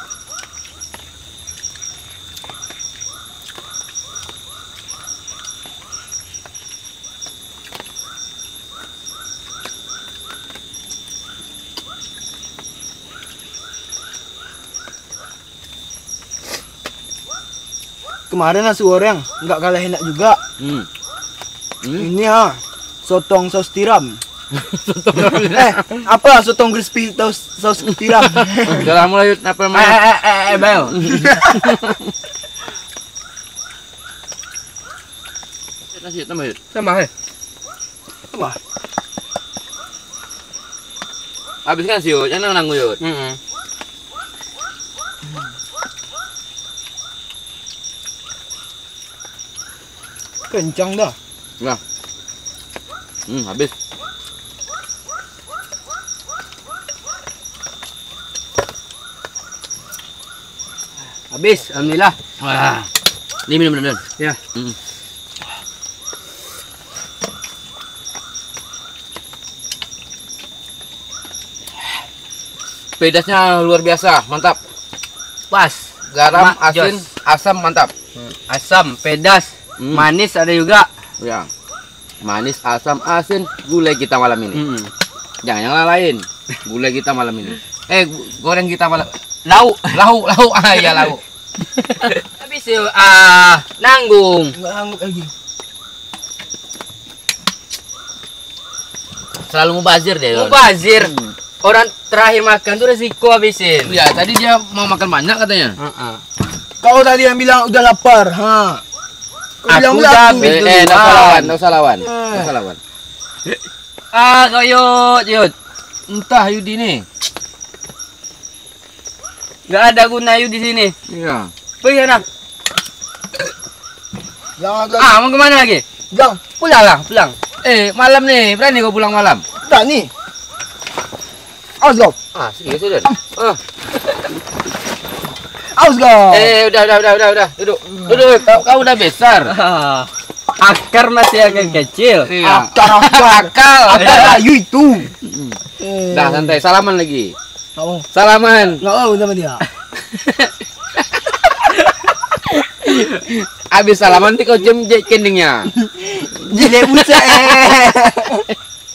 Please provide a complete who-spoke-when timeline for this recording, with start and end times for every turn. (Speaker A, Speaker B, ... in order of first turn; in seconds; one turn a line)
Speaker A: 18.3-20.4
Speaker B: 20.6-20.9
Speaker B: 21.8-22.1
Speaker A: 22.0-24.2
Speaker B: 24.5-26.0
Speaker A: 25.3-28.9
Speaker B: 28.6-30.0
Speaker C: 29.8-30.9
Speaker A: 30.4-31.5
Speaker B: 30.9-32.1
Speaker B: 35.9-36.6
Speaker C: 36.7-37.1
Speaker B: 41.6-43.0
Speaker C: 43.0-43.4
Speaker A: 50.5-51.2
Speaker B: 53.3-53.7
Speaker C: 61.3-62.2
Speaker B: 62.4-62.9
Speaker B: 63.5-64.8
Speaker B: 73.0-74.6
Speaker C: 75.5-77.0
Speaker B: 76.1-77.9
Speaker C: 78.2-80.9
Speaker B: 79.8-80.1
Speaker B: 81.2-81.5
Speaker B: 82.2-84.6
Speaker C: 84.5-84.9
Speaker B: 85.4-89.2
Speaker C: 89.5-90.0
Speaker B: 89.9-91.2
Speaker C: 91.8-94.5
Speaker A: 94.6-95.3
Speaker B: 99.5-100.6
Speaker C: 100.3-104.0
Speaker B: 103.9-105.8
Speaker C: 105.8-106.2
Speaker A: 106.8-108.8
Speaker A: 109.7-110.5
Speaker C: 109.7-111.5
Speaker B: 110.4-112.8
Speaker A: 112.0-112.5
Speaker C: 114.1-115.5
Speaker B: 116.1-117.0
Speaker C: 119.7-120.9
Speaker B: 121.1-121.5
Speaker C: 121.8-122.2
Speaker A: 124.6-125.2
Speaker C: 125.0-125.8
Speaker A: 126.1-126.5
Speaker C: 126.6-127.4
Speaker B: 127.6-129.4
Speaker A: 129.6-130.1
Speaker A: 131.8-132.2
Speaker B: 132.3-133.6
Speaker A: 135.8-136.6
Speaker B: 136.3-139.5
Speaker C: 139.5-142.3
Speaker B: 142.3-144.4
Speaker A: 142.4-145.1
Speaker B: 145.2-145.6
Speaker A: 145.8-146.6
Speaker B: 146.1-147.4
Speaker A: 147.8-148.1
Speaker B: 148.1-148.8
Speaker A: 148.8-149.6
Speaker C: 150.0-150.5
Speaker B: 153.3-155.7
Speaker A: 155.8-158.4